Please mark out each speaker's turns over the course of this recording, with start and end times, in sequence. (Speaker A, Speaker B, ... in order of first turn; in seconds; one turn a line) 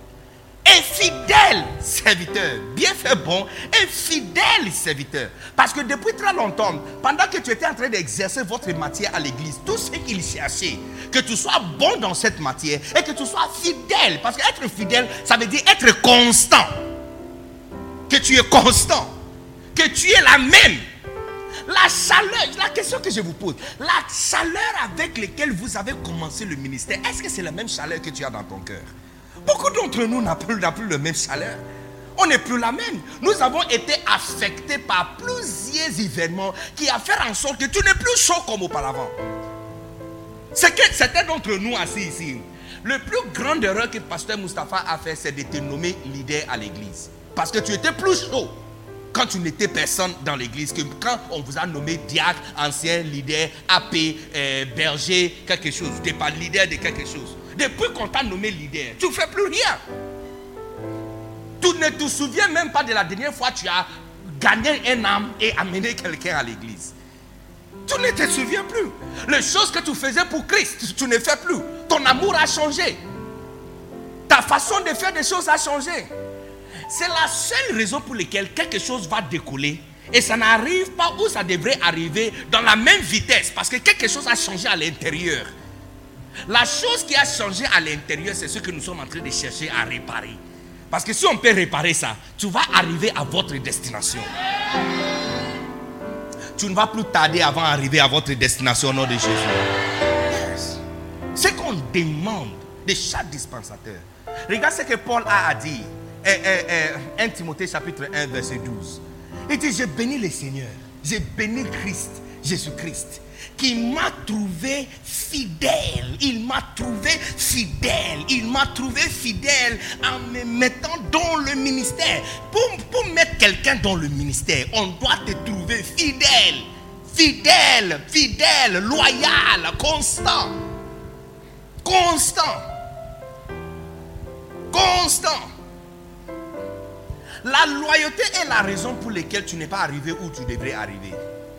Speaker A: 0.7-16.8
Speaker A: 18.1-19.1
Speaker A: 19.7-20.9
Speaker A: 21.6-28.9
Speaker A: 29.4-31.6
Speaker A: 32.2-39.1
Speaker A: 40.5-48.6
Speaker A: 49.1-59.8
Speaker A: 61.6-66.9
Speaker A: 67.9-73.0
Speaker A: 74.3-76.1
Speaker A: 76.9-85.5
Speaker A: 86.5-94.3
Speaker A: 96.5-99.7
Speaker A: 100.3-100.8
Speaker A: 101.3-130.6
Speaker A: 131.8-132.7
Speaker A: 134.7-135.5
Speaker A: 137.4-141.2